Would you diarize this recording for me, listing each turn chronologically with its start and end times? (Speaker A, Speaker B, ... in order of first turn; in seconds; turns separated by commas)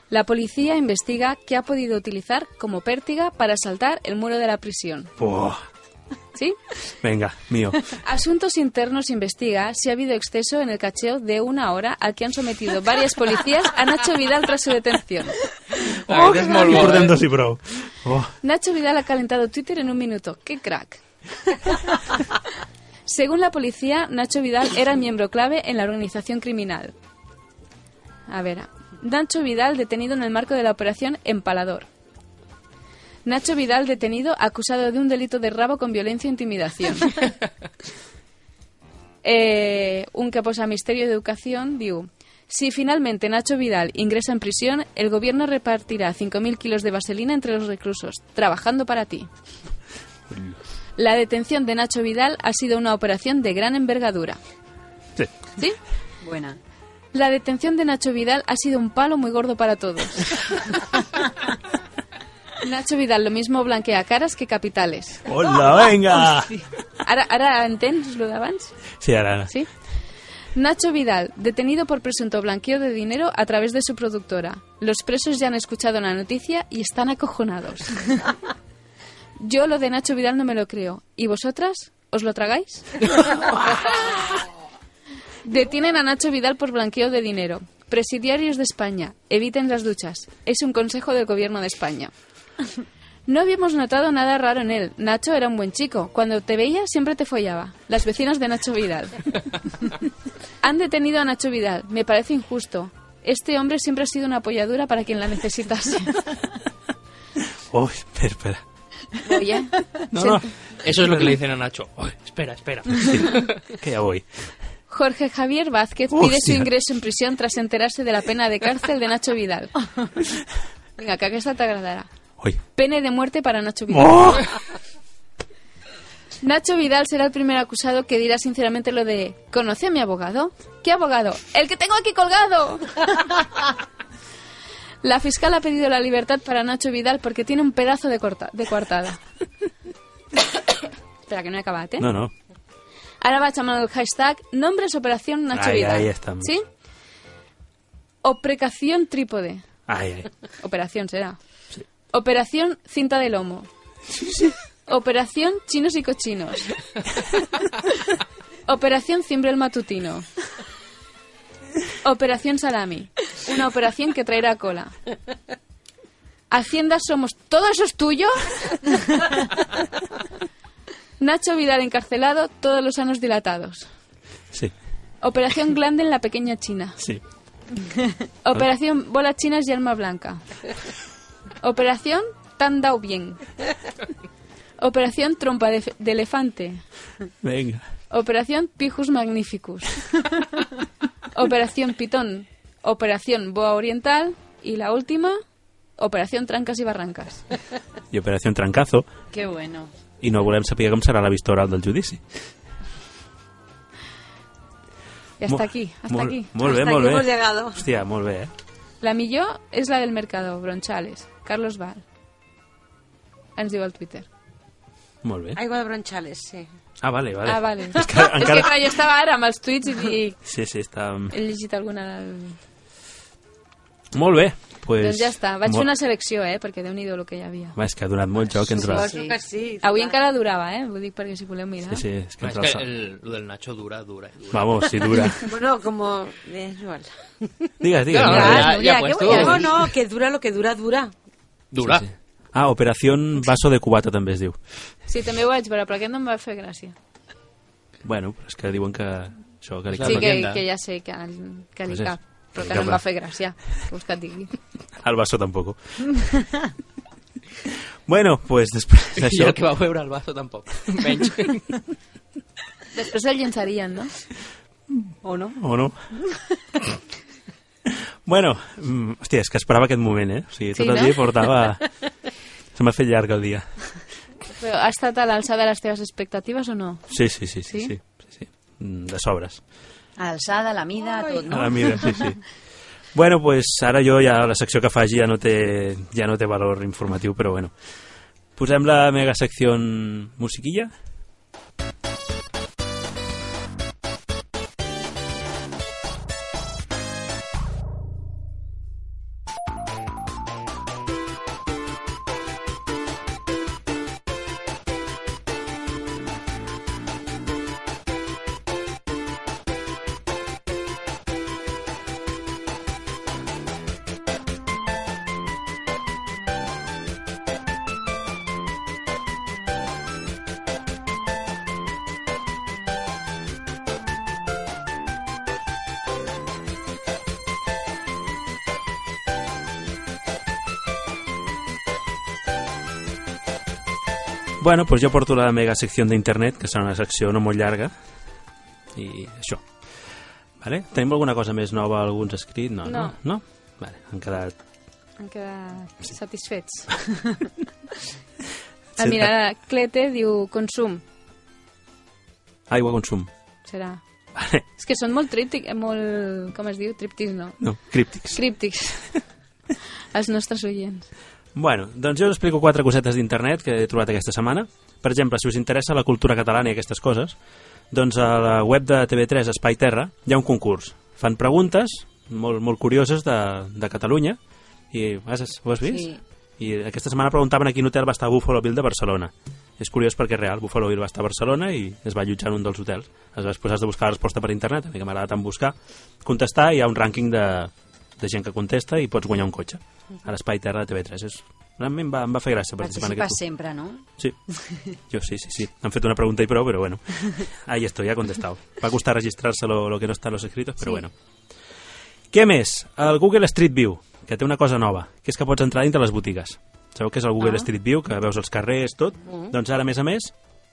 Speaker A: 0.1-5.1, Speaker B: 5.2-5.6, Speaker B: 7.0-7.8, Speaker A: 7.9-15.3, Speaker C: 16.1-17.1, Speaker B: 16.1-18.3, Speaker A: 18.4-21.0, Speaker A: 23.1-26.9, Speaker A: 28.3-31.9, Speaker A: 33.2-37.2, Speaker A: 39.2-49.3, Speaker B: 50.3-50.6, Speaker A: 51.0-54.4, Speaker D: 56.2-56.6, Speaker A: 57.1-60.6, Speaker A: 62.6-65.2, Speaker B: 65.2-66.5, Speaker A: 67.0-68.7, Speaker B: 69.0-69.5, Speaker A: 70.5-78.3, Speaker A: 79.4-82.9, Speaker A: 85.4-92.1, Speaker A: 93.3-99.2, Speaker A: 100.6-106.2, Speaker B: 107.7-108.6, Speaker A: 109.2-110.5, Speaker B: 110.1-111.3, Speaker C: 110.8-113.5, Speaker B: 113.0-114.2, Speaker A: 114.9-119.7, Speaker B: 116.1-116.7, Speaker A: 121.0-122.1, Speaker A: 122.7-124.5, Speaker B: 123.9-124.5, Speaker A: 126.4-133.1, Speaker A: 135.0-139.2, Speaker A: 141.3-142.1, Speaker B: 142.0-142.3, Speaker A: 143.2-146.7, Speaker B: 145.5-146.6, Speaker A: 148.2-149.8, Speaker B: 149.9-150.3, Speaker A: 150.6-151.4, Speaker A: 152.1-153.7, Speaker B: 154.2-154.5, Speaker A: 154.9-156.7, Speaker A: 158.7-160.3, Speaker A: 162.0-164.9, Speaker A: 166.5-168.9, Speaker A: 171.2-173.9, Speaker A: 175.2-177.0, Speaker A: 178.4-180.4, Speaker A: 181.6-183.4, Speaker A: 184.8-186.8, Speaker B: 187.4-187.8, Speaker A: 188.1-190.2, Speaker A: 191.3-195.4, Speaker A: 196.0-197.4, Speaker B: 198.1-199.1, Speaker D: 199.3-199.9, Speaker B: 200.2-202.2, Speaker A: 205.4-206.6, Speaker B: 205.4-208.5, Speaker E: 206.6-207.8, Speaker A: 209.0-212.0, Speaker A: 213.6-214.2, Speaker B: 215.2-215.6, Speaker E: 215.5-216.7, Speaker B: 217.0-218.9, Speaker A: 217.4-220.4, Speaker B: 220.4-221.3, Speaker A: 221.3-222.6, Speaker B: 224.1-225.9, Speaker A: 225.0-227.7, Speaker B: 227.7-229.1, Speaker E: 228.8-230.2, Speaker D: 228.9-229.3, Speaker A: 229.8-232.0, Speaker B: 231.9-232.9, Speaker C: 232.4-235.3, Speaker B: 234.5-235.4, Speaker E: 235.4-237.5, Speaker B: 237.8-238.8, Speaker C: 238.1-239.7, Speaker E: 238.2-241.1, Speaker D: 238.8-239.6, Speaker C: 241.7-242.0, Speaker B: 241.8-244.6, Speaker A: 245.1-246.9, Speaker B: 248.0-250.4, Speaker C: 249.9-250.6, Speaker A: 250.0-254.5, Speaker B: 251.8-253.0, Speaker B: 255.0-255.8, Speaker B: 258.1-259.6, Speaker C: 259.2-261.6, Speaker A: 262.9-264.1, Speaker D: 265.2-265.6, Speaker B: 265.6-266.0, Speaker B: 268.2-271.9, Speaker A: 270.7-271.2, Speaker B: 272.7-273.7, Speaker A: 274.6-277.1, Speaker B: 277.1-279.6, Speaker A: 277.6-277.9, Speaker D: 280.2-282.3, Speaker E: 281.0-281.4, Speaker B: 281.5-282.4, Speaker B: 283.1-287.7, Speaker B: 288.6-290.9, Speaker B: 334.6-337.9, Speaker B: 338.9-339.6, Speaker B: 340.6-344.5, Speaker A: 342.8-343.2, Speaker A: 345.2-347.4, Speaker A: 349.0-351.0, Speaker B: 349.0-349.3, Speaker B: 352.7-353.3, Speaker A: 353.6-354.0, Speaker B: 354.3-354.6, Speaker A: 354.8-359.1, Speaker B: 357.6-358.4, Speaker A: 360.1-361.1, Speaker B: 361.5-367.4, Speaker B: 367.9-374.4, Speaker B: 374.9-393.4, Speaker D: 375.8-376.2, Speaker D: 392.8-394.0, Speaker B: 395.1-401.1, Speaker B: 402.3-410.3